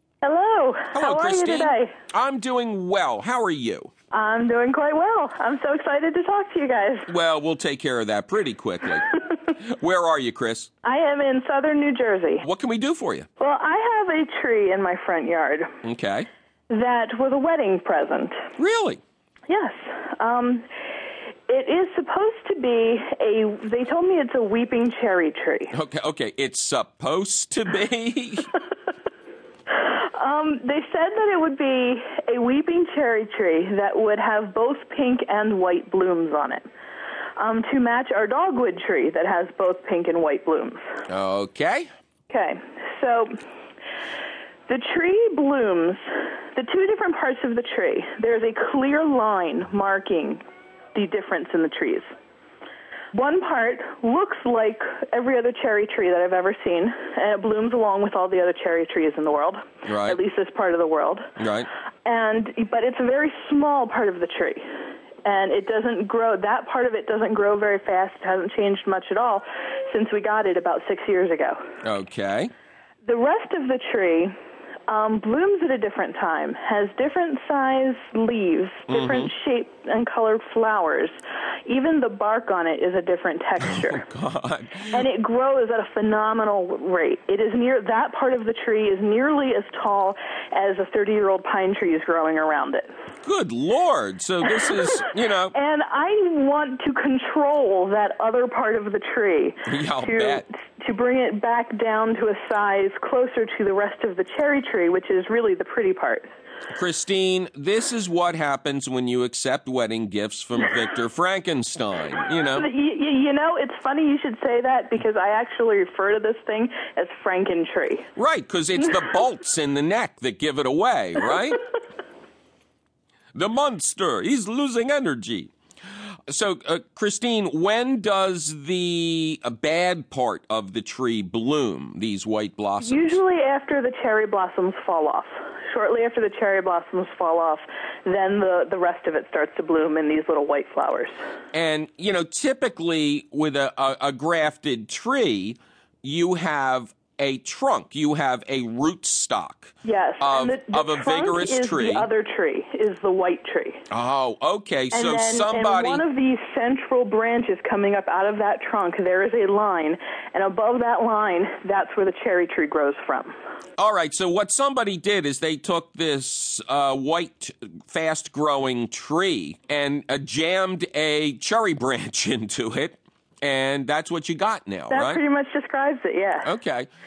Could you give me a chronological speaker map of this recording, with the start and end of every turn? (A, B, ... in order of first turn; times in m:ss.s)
0:00.2-0:01.9 A
0:00.9-0:03.9 B
0:04.1-0:07.1 A
0:07.1-0:10.7 B
0:10.8-0:12.4 A
0:12.4-0:13.2 B
0:13.4-0:15.8 A
0:15.8-0:16.3 B
0:16.7-0:18.4 A
0:18.6-0:19.0 B
0:19.5-0:20.7 A
0:21.5-0:25.7 A
0:25.7-0:28.5 B
0:29.7-0:36.7 A
0:37.4-0:40.8 A
0:41.1-0:41.9 B
0:42.3-0:43.4 A
0:44.7-0:50.4 A
0:50.9-0:52.1 A
0:53.1-1:01.3 A
0:59.8-1:00.2 B
1:01.4-1:01.7 B
1:02.0-1:04.6 A
1:05.2-1:11.6 A
1:11.8-1:12.5 B
1:13.0-1:14.3 A
1:14.9-1:24.0 A
1:18.9-1:19.3 B
1:23.7-1:24.9 B
1:24.9-1:32.9 A
1:33.2-1:35.5 B
1:34.6-1:46.3 A
1:39.6-1:40.4 B
1:46.7-1:52.7 B
1:52.5-1:58.1 A
1:58.2-2:01.6 B
2:03.3-2:05.5 B
2:06.3-2:13.2 B
2:12.8-2:21.2 A
2:21.5-2:32.1 B
2:29.8-2:33.8 A
2:33.9-2:36.0 B
2:34.9-2:43.4 A
2:43.8-2:55.2 B
2:54.9-2:56.5 A
2:56.4-2:56.9 B